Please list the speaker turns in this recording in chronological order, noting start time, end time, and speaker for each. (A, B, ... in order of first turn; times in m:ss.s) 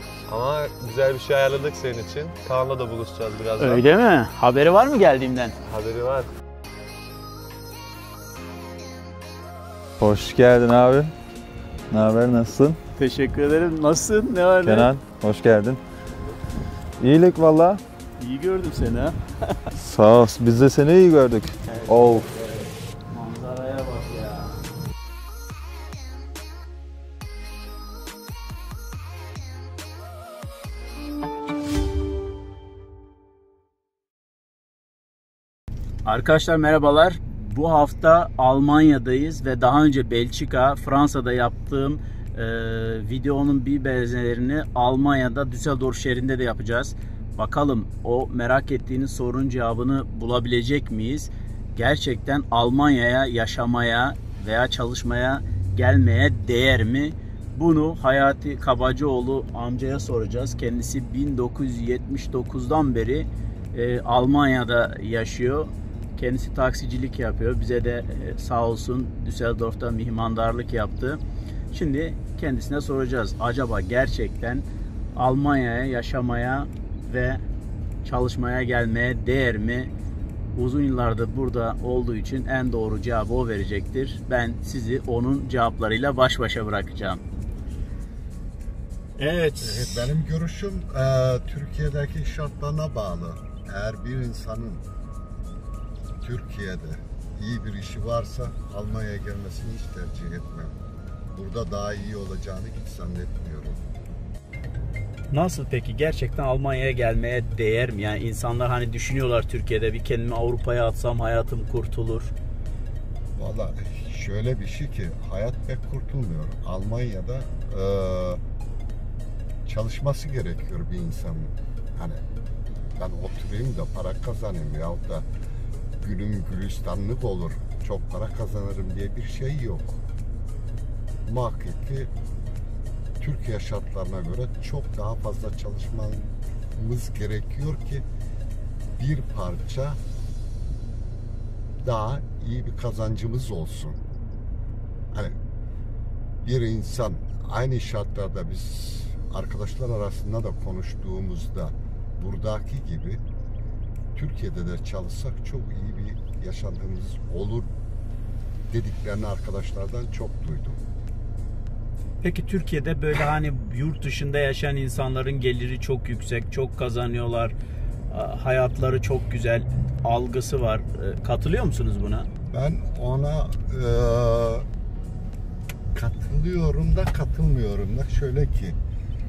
0:00.3-0:03.8 A
0:03.6-0:05.5 B
0:05.6-0:06.3 A
0:10.0-0:11.1 C
0:11.9-0:12.8 C
0:12.9-0:14.9 B
0:14.6-0:15.8 C
0:17.0-0:17.8 C
0:18.2-0:19.6 B
0:19.8-0:22.2 C
0:21.7-0:24.6 B
0:36.0-1:11.2 B
1:11.7-1:17.4 B
1:18.0-1:19.9 B
1:20.5-1:27.2 B
1:29.2-1:30.1 B
1:29.6-1:34.8 D
1:36.2-1:40.8 D
1:41.3-1:43.8 D
1:45.3-1:52.3 B
1:53.4-1:58.4 D
1:59.6-2:02.2 D
2:03.0-2:05.2 D
2:06.0-2:10.0 D
2:11.2-2:12.1 D
2:13.2-2:18.0 D
2:19.0-2:20.0 D
2:21.8-2:24.0 D
2:25.1-2:25.4 D
2:26.4-2:33.2 D
2:34.1-2:37.7 D
2:38.7-2:40.8 D
2:42.2-2:47.5 B
2:48.1-2:52.3 B
2:52.5-2:54.6 D
2:55.9-2:58.8 D